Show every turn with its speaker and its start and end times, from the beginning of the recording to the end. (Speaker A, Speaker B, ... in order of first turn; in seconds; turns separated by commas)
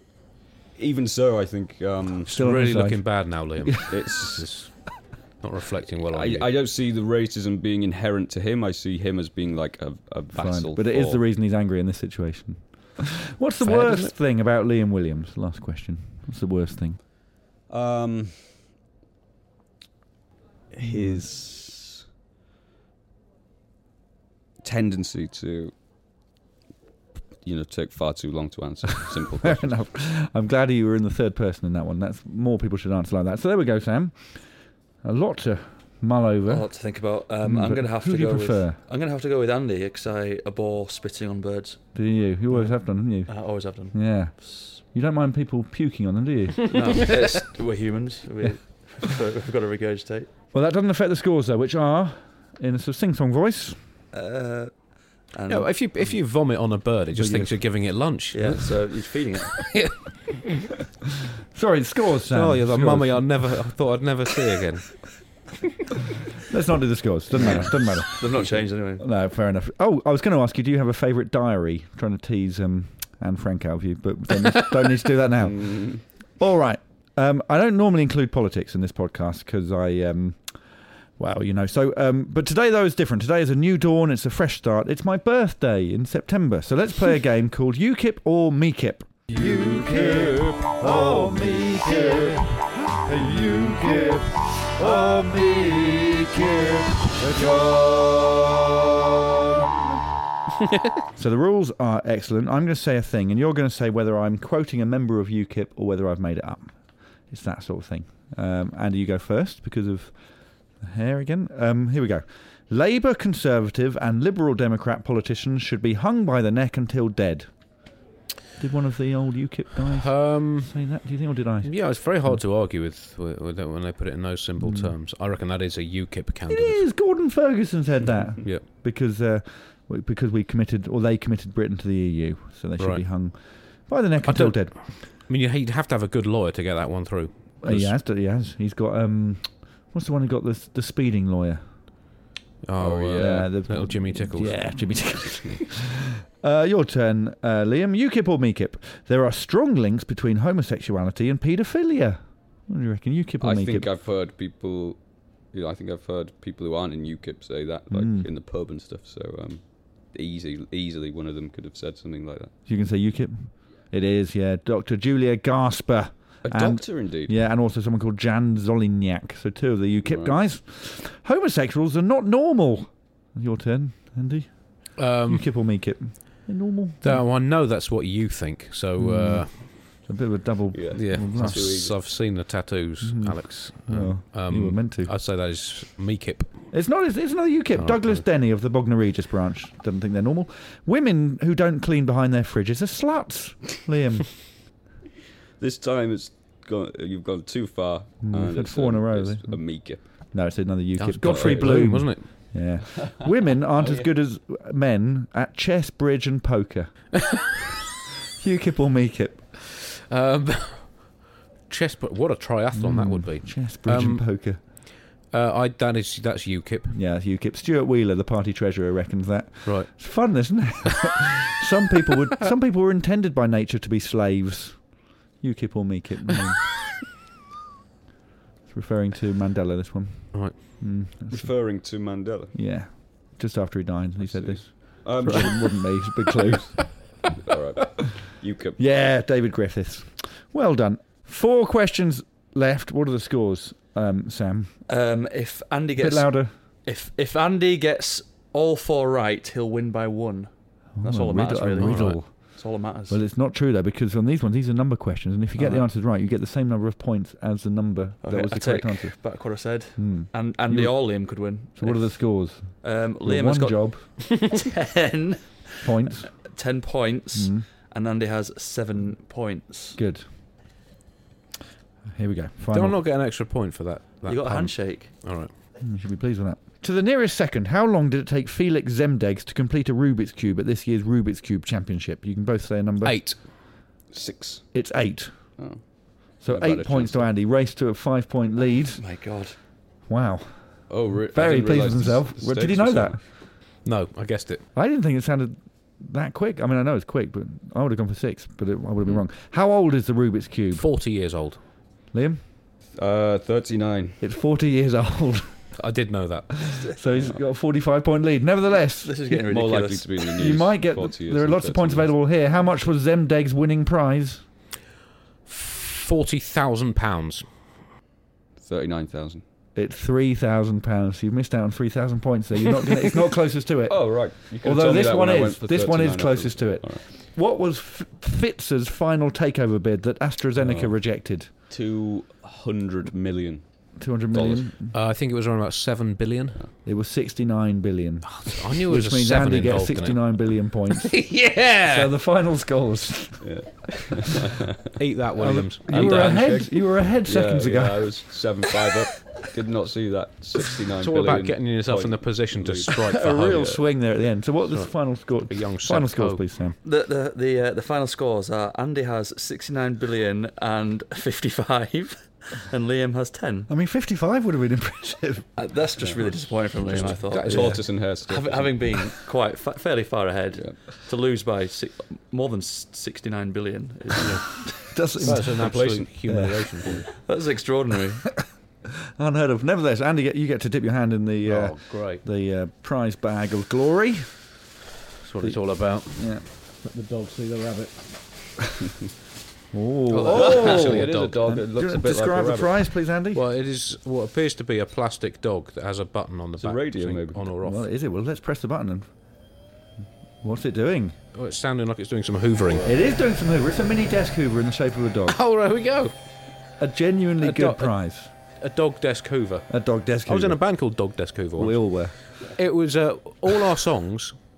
Speaker A: 0.8-2.3, Speaker B: 2.2-6.5, Speaker C: 2.3-3.7, Speaker A: 3.9-4.4, Speaker A: 6.1-11.2, Speaker C: 10.3-17.0, Speaker B: 13.6-14.1, Speaker A: 17.7-18.5, Speaker A: 20.7-22.0, Speaker C: 20.8-21.2, Speaker A: 24.6-25.7, Speaker A: 27.4-29.7, Speaker C: 29.4-34.5, Speaker C: 35.0-36.8, Speaker D: 36.5-41.8, Speaker C: 37.4-38.8, Speaker C: 41.9-46.8, Speaker D: 42.5-44.8, Speaker D: 46.7-50.3, Speaker C: 50.5-53.8, Speaker D: 54.1-55.7, Speaker B: 55.5-58.7, Speaker C: 57.1-57.6, Speaker D: 58.3-59.6, Speaker B: 59.6-60.7, Speaker C: 61.5-63.6, Speaker B: 62.3-65.0, Speaker C: 66.5-99.6, Speaker D: 67.4-69.1, Speaker A: 75.4-76.0, Speaker A: 90.4-90.7, Speaker C: 101.2-117.5, Speaker C: 118.6-122.4, Speaker B: 120.0-120.9, Speaker B: 121.6-126.8, Speaker C: 124.6-124.9, Speaker C: 126.5-134.8, Speaker B: 132.8-133.6, Speaker B: 134.2-137.9, Speaker C: 137.6-141.6, Speaker B: 142.6-144.8, Speaker A: 142.8-143.5, Speaker C: 143.1-153.9, Speaker A: 153.4-162.5, Speaker C: 157.9-158.3, Speaker C: 162.7-177.2, Speaker A: 166.4-167.3, Speaker A: 170.0-170.4, Speaker B: 175.0-175.4, Speaker B: 177.0-180.0, Speaker C: 179.0-181.8, Speaker A: 180.7-181.9, Speaker B: 180.9-186.7, Speaker C: 183.0-185.1, Speaker C: 186.7-194.5, Speaker B: 187.8-188.2, Speaker A: 195.6-200.0, Speaker C: 198.2-207.4, Speaker B: 201.0-202.3, Speaker A: 201.3-201.8, Speaker A: 203.8-204.1, Speaker C: 208.4-209.4, Speaker B: 209.6-216.9, Speaker C: 212.7-214.6, Speaker C: 216.9-226.7, Speaker B: 219.6-219.9, Speaker C: 228.7-231.5, Speaker A: 231.3-232.5, Speaker C: 232.5-237.0, Speaker A: 234.2-235.8, Speaker A: 236.4-238.8, Speaker C: 238.8-244.8, Speaker D: 244.9-253.2, Speaker C: 246.0-246.5, Speaker C: 251.0-252.6, Speaker B: 251.8-252.3, Speaker C: 253.1-259.1, Speaker D: 255.6-255.8, Speaker D: 258.2-262.2, Speaker C: 259.9-264.0, Speaker D: 262.8-270.0, Speaker C: 265.8-266.3, Speaker C: 267.3-267.6, Speaker C: 269.9-270.2, Speaker C: 272.1-273.0, Speaker B: 272.7-275.5, Speaker D: 274.2-275.1, Speaker C: 275.8-283.2, Speaker B: 283.0-283.4, Speaker A: 284.1-284.7, Speaker C: 284.7-285.6, Speaker A: 285.6-287.3, Speaker C: 286.4-289.0, Speaker D: 288.9-289.6, Speaker C: 290.1-293.2, Speaker A: 290.9-293.2, Speaker B: 293.8-294.6, Speaker C: 294.7-300.8, Speaker B: 300.7-301.6, Speaker C: 302.1-302.4, Speaker A: 302.9-304.2, Speaker C: 304.2-305.5, Speaker B: 305.8-306.8, Speaker C: 306.7-309.2, Speaker D: 309.0-310.3, Speaker A: 309.5-312.1, Speaker C: 310.3-314.4, Speaker B: 315.4-317.6, Speaker A: 318.6-319.4, Speaker C: 319.7-331.5, Speaker A: 323.9-327.0, Speaker A: 330.6-330.9, Speaker A: 331.7-333.6, Speaker C: 333.9-334.9, Speaker A: 334.3-334.6, Speaker B: 334.9-336.6, Speaker C: 336.8-343.5, Speaker B: 338.3-342.1, Speaker A: 343.4-344.7, Speaker B: 345.0-346.6, Speaker C: 345.4-348.5, Speaker A: 345.9-353.0, Speaker B: 351.0-353.8, Speaker C: 353.0-356.8, Speaker B: 354.7-356.4, Speaker D: 356.8-363.7, Speaker C: 363.7-365.5, Speaker D: 365.6-367.7, Speaker A: 366.0-369.1, Speaker B: 366.8-368.1, Speaker C: 367.5-367.8, Speaker D: 368.2-374.4, Speaker A: 370.5-370.8, Speaker C: 374.8-376.9, Speaker B: 375.2-377.1, Speaker A: 375.5-376.1, Speaker D: 377.2-378.3, Speaker C: 379.1-384.4, Speaker B: 381.4-382.2, Speaker B: 385.2-386.4, Speaker C: 385.4-387.9, Speaker C: 389.7-393.4, Speaker B: 390.1-391.5, Speaker A: 390.3-392.7, Speaker B: 393.3-397.8, Speaker A: 396.6-397.4, Speaker C: 397.6-399.1, Speaker C: 400.4-401.1, Speaker B: 401.3-402.9, Speaker C: 402.8-405.4, Speaker B: 405.3-406.1, Speaker C: 406.8-408.3, Speaker B: 407.4-407.9, Speaker B: 408.6-414.4, Speaker C: 409.7-410.7, Speaker C: 411.6-412.2